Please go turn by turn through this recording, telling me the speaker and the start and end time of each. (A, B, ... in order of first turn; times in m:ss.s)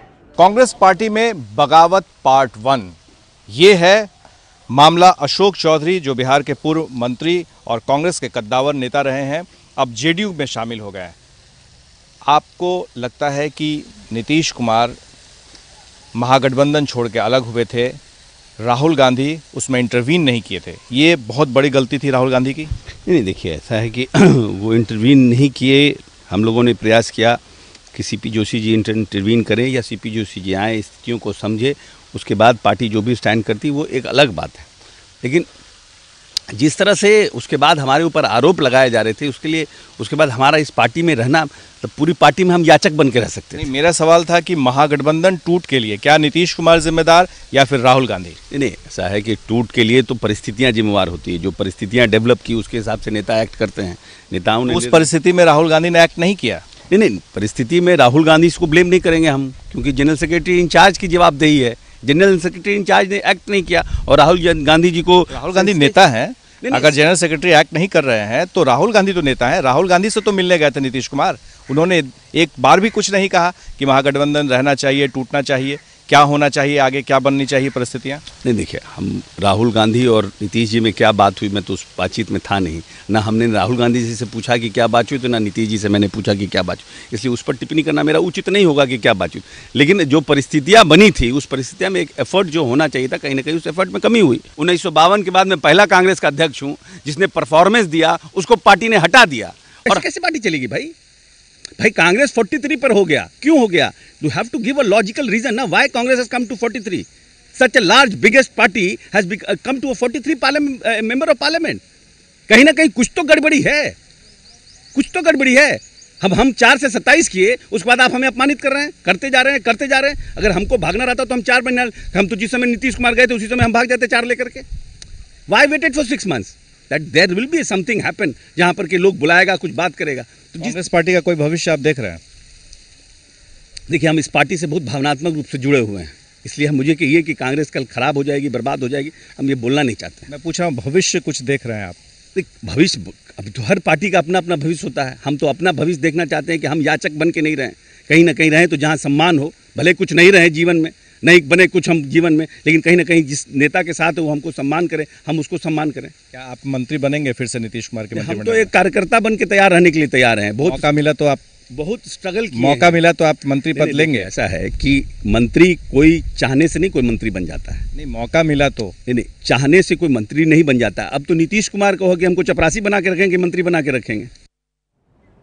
0:00.4-0:02.9 A
0:03.5-0:04.1 A
0:04.7-0:11.2 A
0:12.2-0:15.0 A
0:16.1-0:18.0 A
0:18.6-0:22.7 A
0:23.0-0:27.4 B
0:27.9-0:34.6 B
0:35.2-0:35.5 B
0:36.5-0:43.7 B
0:43.5-0:48.4 A
0:48.5-0:55.1 B
0:54.7-0:56.6 A
0:56.9-1:06.0 B
1:05.3-1:18.2 A
1:06.6-1:07.0 B
1:18.4-1:40.9 B
1:41.8-1:51.8 B
1:52.5-1:54.0 B
1:54.9-2:04.6 B
2:05.5-2:10.8 B
2:10.6-2:12.2 A
2:13.9-2:20.3 B
2:20.3-2:22.0 A
2:22.3-2:36.1 B
2:36.3-2:38.7 A
2:38.1-2:40.8 B
2:40.6-2:41.4 A
2:41.7-2:43.0 B
2:42.5-2:44.3 A
2:43.8-2:47.8 B
2:47.9-2:48.9 A
2:49.1-2:54.3 B